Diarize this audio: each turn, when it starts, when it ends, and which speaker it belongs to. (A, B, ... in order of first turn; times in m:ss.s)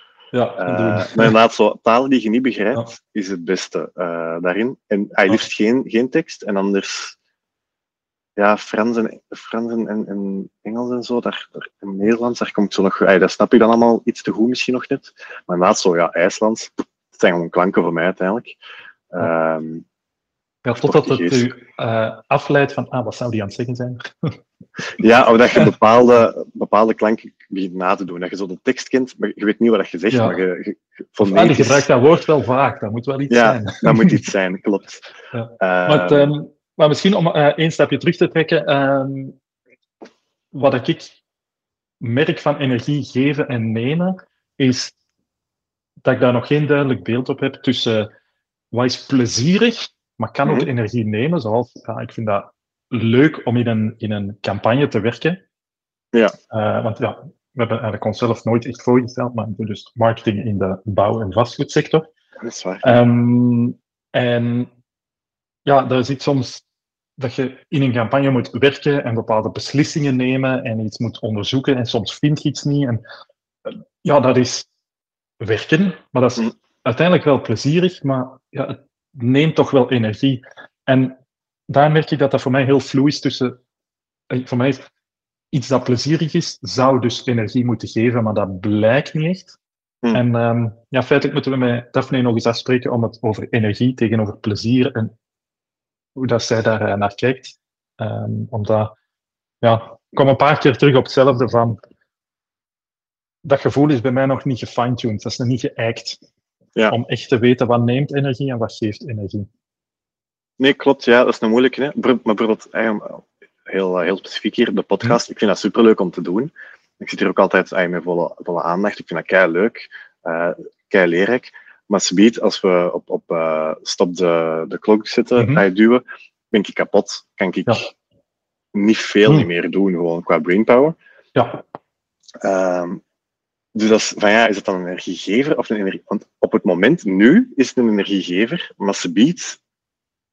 0:00.3-0:01.3 A
0:00.6-0:07.2 B
0:08.4-0:18.6 B
0:19.1-0:19.8 B
0:20.6-0:24.4 A
0:20.7-0:21.5 B
0:25.0-0:31.9 B
0:30.1-0:30.4 A
0:31.2-0:34.2 A
0:33.3-0:35.0 B
0:35.3-0:39.4 A
0:35.6-0:36.3 B
0:40.5-0:41.1 A
0:42.0-0:44.9 A
0:46.0-0:48.1 A
0:48.7-0:55.4 A
0:56.5-1:02.1 A
1:02.4-1:02.9 B
1:02.8-1:04.7 A
1:05.6-1:06.6 A
1:07.2-1:13.0 A
1:13.7-1:14.7 A
1:15.4-1:21.1 A
1:21.7-1:23.6 A
1:24.3-1:24.9 A
1:25.5-1:29.6 A
1:30.1-1:35.1 A
1:36.2-1:38.9 A
1:39.6-1:41.8 A
1:43.4-1:46.2 A
1:46.9-1:49.5 A
1:50.6-2:07.9 B
2:05.4-2:05.6 A
2:08.7-2:11.0 B
2:11.3-2:11.6 A
2:12.4-2:13.0 B
2:13.7-2:19.6 B